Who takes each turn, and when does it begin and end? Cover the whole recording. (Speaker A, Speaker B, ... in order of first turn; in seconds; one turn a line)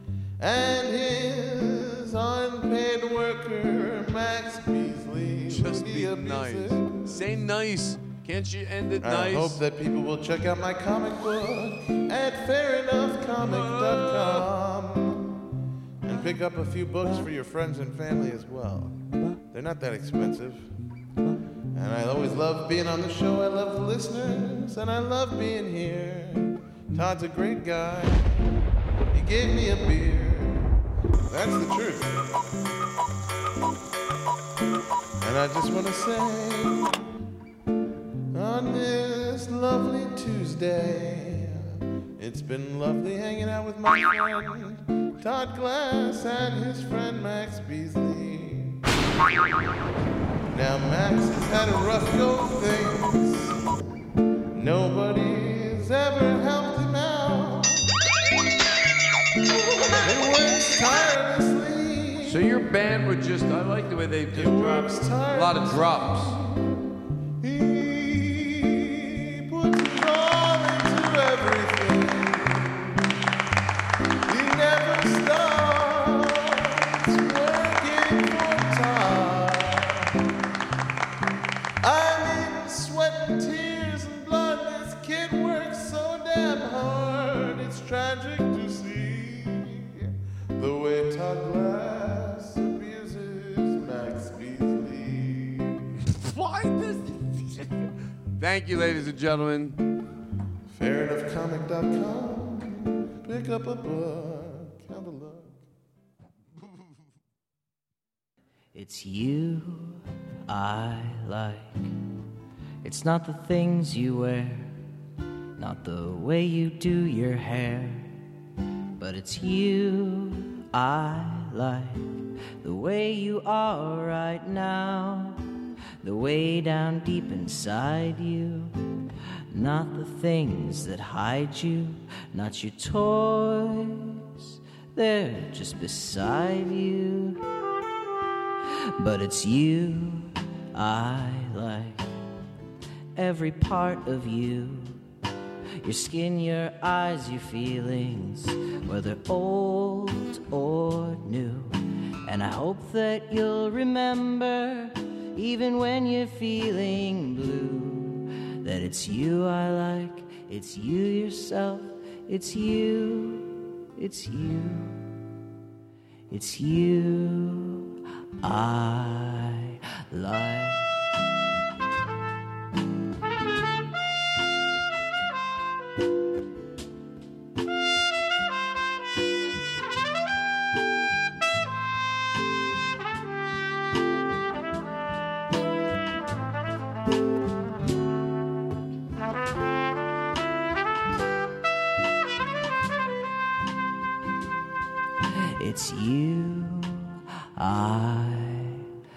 Speaker A: 0.4-7.3
Speaker B: 5.5-9.6
Speaker A: 9.0-15.3
Speaker B: 13.4-14.5
Speaker A: 16.0-18.9
Speaker B: 17.0-17.3
Speaker A: 19.5-20.7
Speaker A: 21.7-28.6
Speaker A: 29.1-30.8
Speaker A: 31.3-32.3
Speaker A: 35.2-37.1
Speaker A: 38.3-48.8
Speaker A: 50.5-53.6
Speaker A: 54.5-57.9
Speaker A: 59.8-62.4
Speaker B: 62.2-66.4
Speaker A: 64.3-73.0
Speaker A: 74.3-80.1
Speaker A: 81.8-95.8
Speaker B: 96.0-97.7
Speaker B: 98.4-99.8
Speaker A: 100.7-105.6
Speaker C: 108.7-111.8
Speaker C: 112.8-114.7
Speaker C: 115.6-118.1
Speaker C: 119.0-122.1
Speaker C: 122.6-125.4
Speaker C: 126.0-128.7
Speaker C: 129.5-137.4
Speaker C: 139.0-142.1
Speaker C: 143.2-145.0
Speaker C: 145.8-165.0
Speaker C: 166.3-167.9
Speaker C: 168.4-170.8
Speaker C: 195.6-198.8